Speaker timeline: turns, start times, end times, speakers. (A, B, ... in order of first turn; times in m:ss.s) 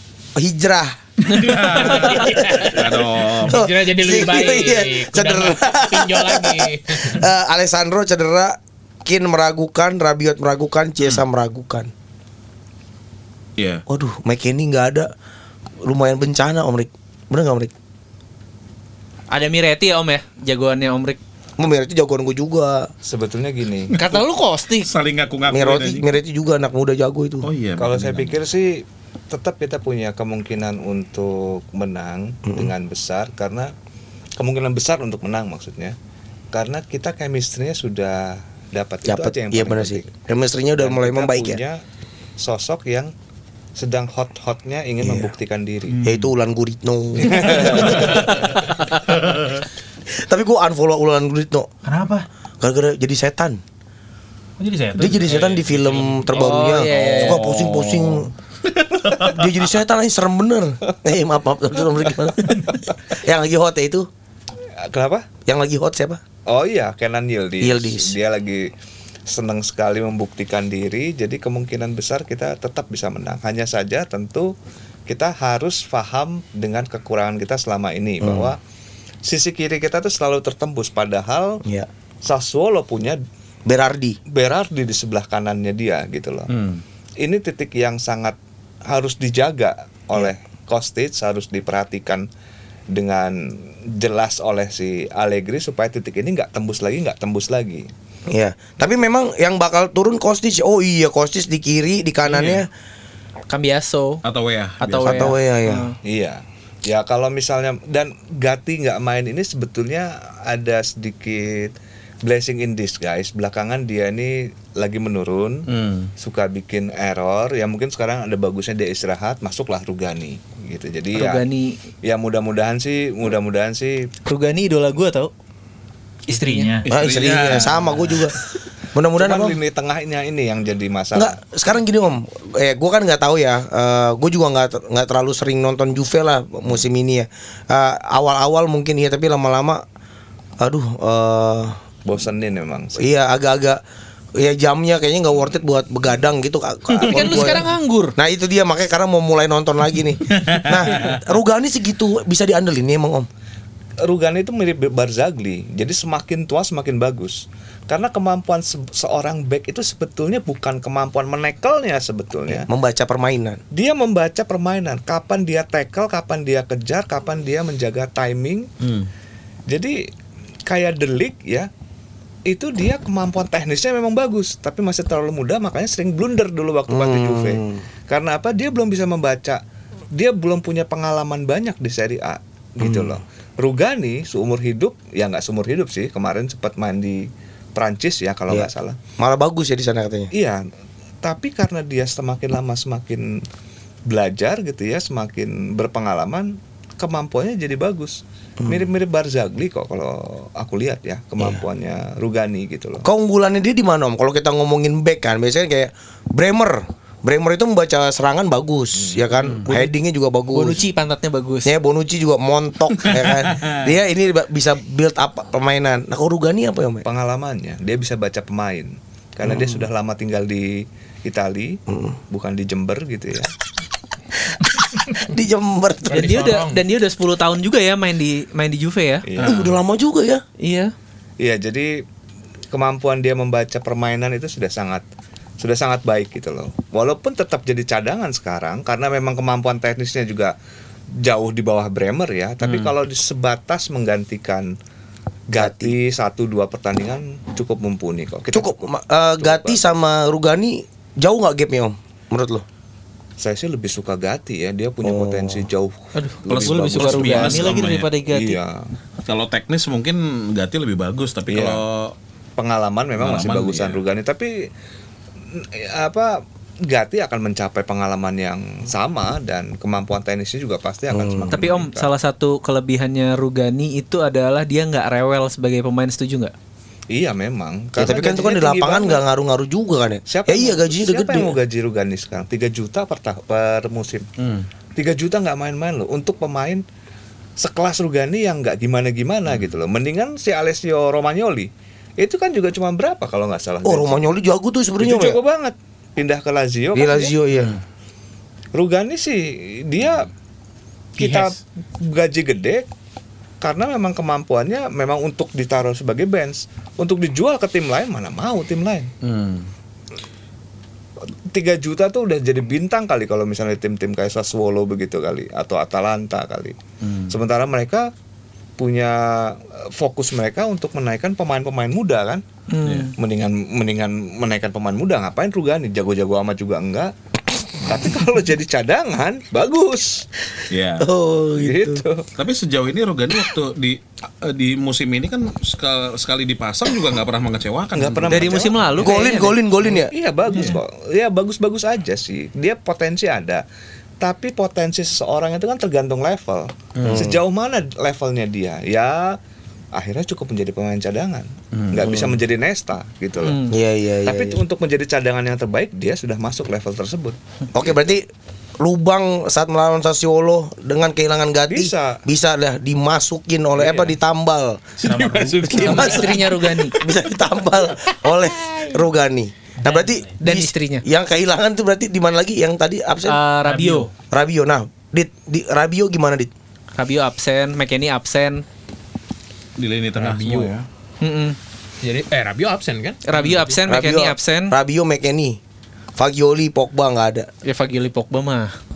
0:00.4-0:01.0 A
0:01.2-0:03.6 B
0:01.8-0:02.8 A
0:01.8-0:07.2 C
0:03.5-0:11.9 A
0:13.6-0:13.8 B
0:13.9-0:15.1 A
0:15.8-0:17.7 A
0:19.3-0:21.2 D
0:21.6-0:22.9 A
0:23.0-0:23.9 E
0:23.9-0:24.9 D
0:24.8-0:26.1 B
0:25.5-0:27.5 A
0:27.4-0:28.4 B
0:27.8-0:33.7 E
0:34.4-0:36.0 E
0:36.5-0:40.1 E
0:39.0-0:41.6 A
0:40.8-0:41.8 E
0:42.4-0:43.1 E
0:43.8-0:46.0 E
0:45.0-0:45.3 A
0:46.0-0:48.5 A
0:47.2-0:48.3 E
0:49.3-0:49.6 B
0:50.1-0:51.7 A
0:51.8-0:52.3 F
0:52.6-0:53.6 A
0:54.6-0:56.8 F
0:55.0-0:58.3 A
0:55.2-0:55.6 B
0:56.3-0:57.5 D
0:57.0-0:59.5 B
0:59.2-1:04.1 A
1:04.8-1:05.3 E
1:05.4-1:06.2 A
1:06.5-1:08.7 E
1:07.6-1:08.2 A
1:09.3-1:14.5 E
1:15.1-1:18.6 E
1:18.2-1:18.5 A
1:19.2-1:21.6 E
1:22.2-1:23.2 E
1:23.7-1:24.2 A
1:24.3-1:26.5 E
1:26.5-1:26.8 B
1:27.2-1:32.3 E
1:32.9-1:37.9 E
1:38.3-1:42.7 A
1:42.2-1:42.6 B
1:43.5-1:44.2 D
1:44.2-1:45.4 B
1:44.8-1:45.9 D
1:45.0-1:45.8 A
1:46.0-1:51.7 E
1:52.2-1:55.6 E
1:55.7-1:56.1 B
1:56.2-2:01.4 E
2:01.1-2:01.8 D
2:02.0-2:04.1 E
2:04.2-2:05.3 D
2:06.3-2:06.7 D
2:06.3-2:06.9 F
2:06.8-2:08.2 B
2:06.9-2:08.4 A
2:07.8-2:08.2 F
2:08.9-2:09.6 A
2:09.2-2:11.4 E
2:11.1-2:19.8 A
2:20.6-2:21.8 A
2:22.1-2:23.0 E
2:23.0-2:23.8 A
2:24.4-2:33.3 A
2:27.0-2:28.1 D
2:30.4-2:31.2 B
2:34.0-2:42.7 E
2:42.5-2:43.6 A
2:43.7-2:48.7 E
2:48.8-2:49.1 B
2:49.7-2:50.1 E
2:50.7-2:51.7 E
2:52.5-2:59.6 E
2:56.9-2:57.8 A
3:00.1-3:09.0 E
3:02.8-3:03.2 A
3:08.5-3:10.3 A
3:10.3-3:10.6 E
3:11.2-3:13.4 E
3:14.1-3:23.0 E
3:18.6-3:18.9 A
3:23.0-3:30.8 A
3:29.0-3:29.7 E
3:30.5-3:31.7 D
3:31.7-3:37.1 A
3:33.1-3:33.8 B
3:37.0-3:43.5 E
3:39.4-3:39.9 A
3:41.9-3:42.2 A
3:44.4-3:46.5 A
3:46.1-3:46.8 C
3:46.1-3:49.2 D
3:49.2-3:49.7 E
3:49.4-3:49.7 B
3:49.4-3:50.4 A
3:50.6-3:50.9 D
3:51.4-3:52.0 E
3:52.7-3:55.0 E
3:55.6-4:00.5 E
4:01.2-4:04.7 E
4:05.5-4:08.7 E
4:05.6-4:06.0 A
4:08.5-4:12.6 A
4:09.4-4:09.9 E
4:13.4-4:18.9 E
4:15.0-4:15.7 A
4:16.1-4:18.6 D
4:16.5-4:18.1 B
4:19.2-4:22.1 B
4:21.5-4:21.8 E
4:22.6-4:24.7 E
4:23.2-4:24.0 B
4:25.5-4:32.1 E
4:31.1-4:31.6 A
4:31.5-4:36.5 D
4:37.1-4:39.2 E
4:38.0-4:41.6 A
4:40.3-4:44.2 E
4:44.4-4:44.7 B
4:45.0-4:46.8 E
4:47.6-4:54.2 E
4:53.8-4:55.4 A
4:55.0-4:57.3 E
4:56.9-4:57.8 A
4:58.8-5:00.3 E
5:01.2-5:02.8 E
5:01.2-5:01.5 C
5:03.6-5:09.1 E
5:09.2-5:09.7 B
5:11.5-5:16.8 E
5:17.0-5:17.3 B
5:17.3-5:18.1 E
5:18.8-5:22.4 E
5:22.7-5:23.1 D
5:23.2-5:27.1 E
5:27.7-5:30.3 E
5:30.7-5:31.1 B
5:31.0-5:32.0 A
5:31.6-5:32.3 E
5:32.4-5:38.6 B
5:37.9-5:39.3 E
5:38.3-5:39.6 D
5:39.0-5:40.1 A
5:39.8-5:43.6 E
5:40.5-5:40.8 B
5:44.2-5:49.4 E
5:47.0-5:47.3 B
5:47.1-5:47.4 A
5:49.9-5:53.6 E
5:51.7-5:52.3 B
5:52.1-5:52.3 A
5:53.4-5:53.7 D
5:53.7-5:54.6 A
5:54.2-5:57.4 E
5:57.7-5:58.2 A
5:58.8-6:04.9 A
6:01.7-6:02.2 E
6:03.8-6:04.1 C
6:05.0-6:06.4 F
6:05.0-6:06.4 C
6:05.6-6:13.4 A
6:05.7-6:07.0 D
6:09.8-6:10.3 F
6:10.4-6:11.0 D
6:13.3-6:14.1 D
6:13.6-6:14.1 F
6:14.3-6:16.5 A
6:17.0-6:18.6 D
6:19.8-6:20.8 B
6:20.2-6:20.7 C
6:21.2-6:21.6 D
6:22.0-6:23.8 C
6:23.3-6:24.7 D
6:23.9-6:25.6 A
6:26.2-6:27.5 A
6:27.6-6:28.7 D